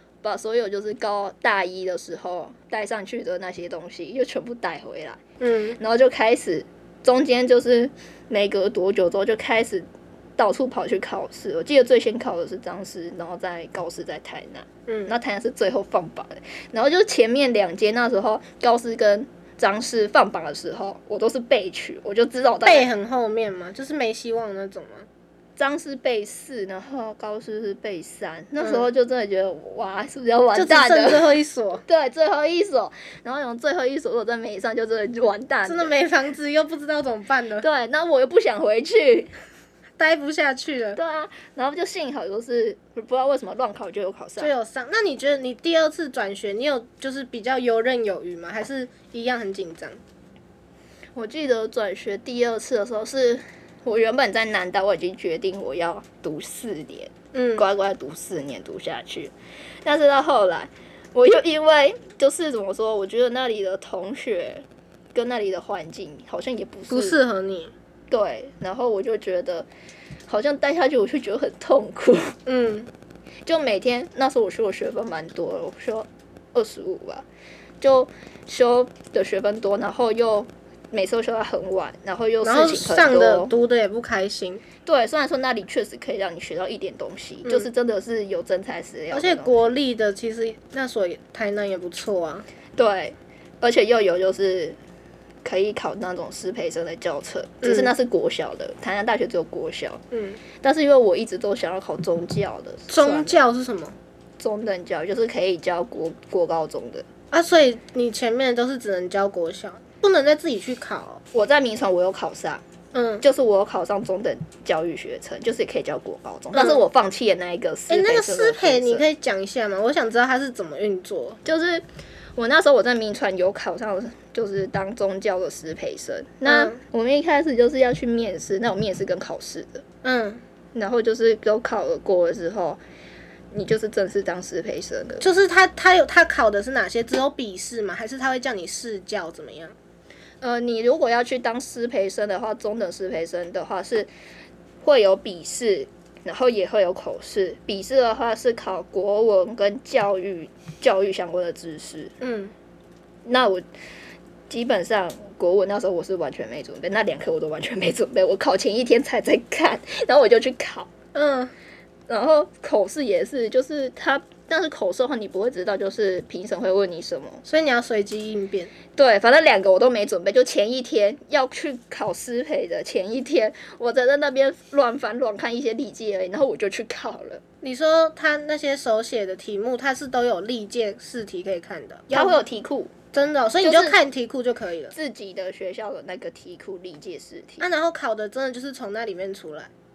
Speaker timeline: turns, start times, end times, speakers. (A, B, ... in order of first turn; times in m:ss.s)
0:00.2-0:05.2 A
0:05.4-0:05.8 B
0:05.8-0:22.9 A
0:14.9-0:15.1 B
0:22.6-0:25.1 B
0:25.6-0:31.3 A
0:28.6-0:28.8 B
0:30.5-0:31.8 B
0:31.8-0:35.9 A
0:35.6-0:37.6 B
0:37.6-0:39.3 A
0:40.0-0:41.0 B
0:40.9-0:44.5 A
0:44.4-0:50.0 B
0:51.1-0:59.3 A
0:57.3-0:57.6 B
0:59.8-1:07.2 A
1:06.9-1:07.7 B
1:08.1-1:09.7 A
1:10.3-1:12.4 A
1:12.4-1:12.9 B
1:13.4-1:17.2 A
1:17.8-1:23.5 A
1:22.4-1:24.6 B
1:24.8-1:29.6 A
1:29.1-1:32.4 B
1:32.8-1:34.8 A
1:35.4-1:40.0 A
1:37.6-1:37.9 B
1:40.1-1:40.4 B
1:40.6-1:43.4 A
1:42.9-1:43.9 B
1:44.4-1:47.0 A
1:47.3-1:51.2 B
1:51.3-1:52.6 A
1:52.9-1:53.2 B
1:53.2-1:59.0 A
1:56.5-1:56.8 B
1:57.9-2:01.4 B
2:01.4-2:01.8 A
2:02.4-2:09.8 A
2:06.4-2:06.8 B
2:10.0-2:10.4 B
2:10.7-2:12.8 A
2:13.5-2:15.3 A
2:15.2-2:19.7 B
2:20.4-2:24.1 A
2:24.8-2:32.1 A
2:32.2-2:32.5 B
2:33.2-2:33.6 A
2:34.5-2:40.9 A
2:41.1-2:41.5 B
2:42.1-2:47.4 A
2:47.4-2:48.7 B
2:48.9-2:57.4 A
2:57.6-3:02.4 B
3:02.1-3:02.9 A
3:03.1-3:04.9 B
3:03.6-3:04.0 A
3:04.9-3:07.6 A
3:07.6-3:09.7 B